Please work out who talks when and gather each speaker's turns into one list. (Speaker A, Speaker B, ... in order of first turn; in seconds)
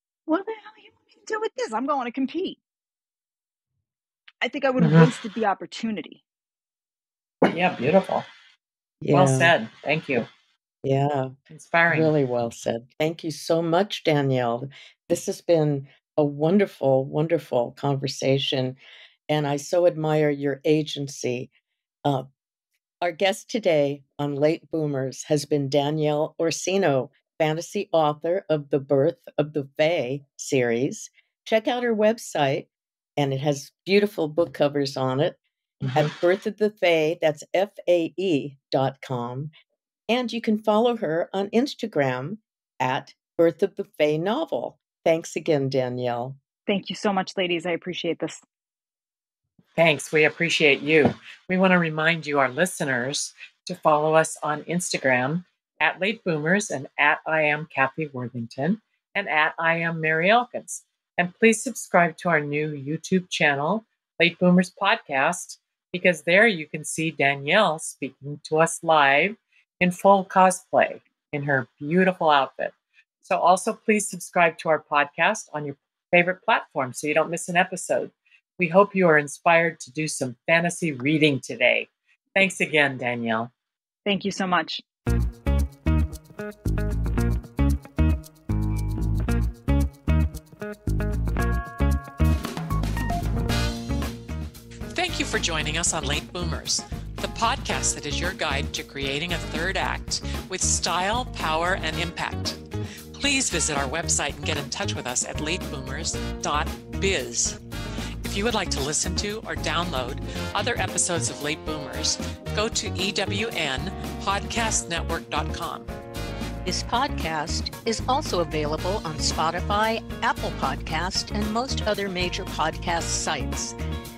Speaker A: 0.3-2.6, 4.4-6.2, 46.7-48.4, 84.1-84.8
Speaker B: 4.8-5.1, 7.5-8.3, 9.1-10.3, 11.5-12.1, 35.9-36.1, 49.8-83.5, 94.9-102.6, 103.1-107.6, 108.2-115.9
Speaker C: 9.0-9.5, 10.8-11.3, 11.9-18.8, 19.3-21.5, 23.0-39.5, 40.1-46.4
Speaker D: 116.7-123.8